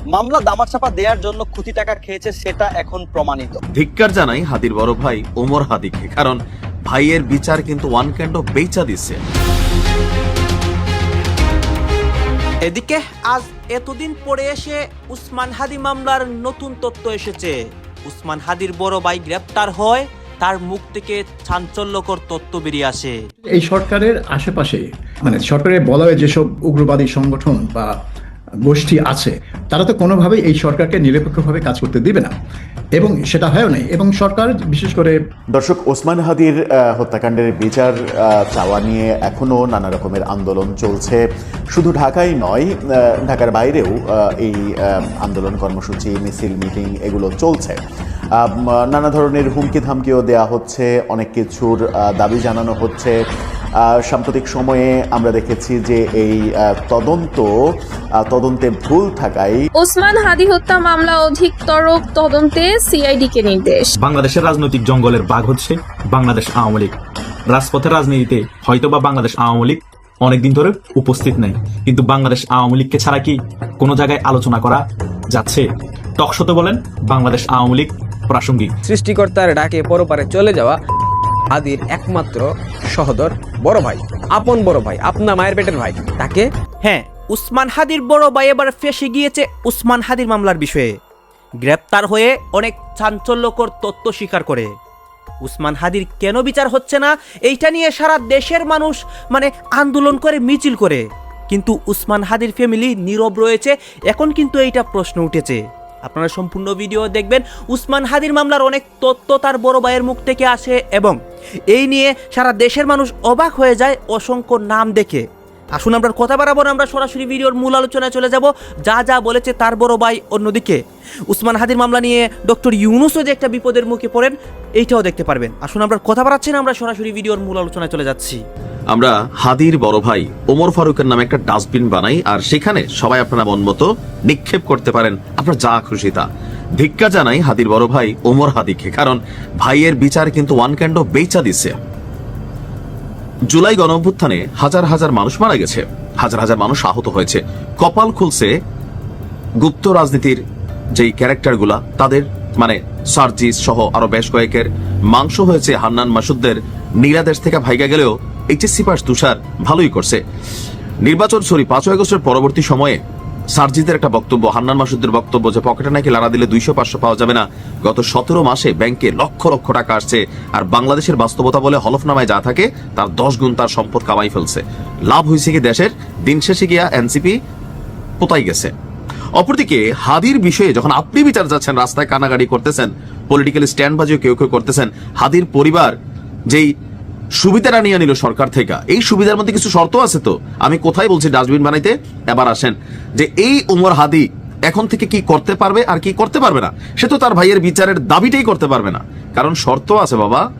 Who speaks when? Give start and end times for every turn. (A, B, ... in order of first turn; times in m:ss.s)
0:00.1-0:03.6 A
0:03.8-0:09.2 B
0:12.6-0:17.5 C
0:18.0-0:23.2 C
0:23.4-0:27.9 D
0:28.6-0:32.3 D
0:32.9-0:35.2 D
0:35.5-0:41.2 E
0:41.7-0:47.8 E
0:48.4-0:53.2 E
0:53.8-0:57.5 E
0:58.2-0:59.6 E
0:59.9-1:03.8 F
1:04.0-1:06.9 G
1:07.5-1:14.8 G
1:15.3-1:15.6 G
1:16.2-1:18.7 G
1:18.8-1:20.8 H
1:21.5-1:26.4 H
1:26.8-1:30.9 C
1:31.6-1:34.7 C
1:35.4-1:51.2 C
1:51.7-1:55.2 C
1:55.8-2:00.8 C
2:01.3-2:08.4 C
2:08.9-2:16.2 B
2:16.8-2:21.8 B
2:23.5-2:28.5 B
2:29.6-2:30.4 B
2:30.9-2:40.2 B
2:41.0-2:43.0 B
2:43.5-2:57.3 B
2:58.2-2:58.7 B
2:59.4-3:05.9 B
3:07.4-3:20.4 B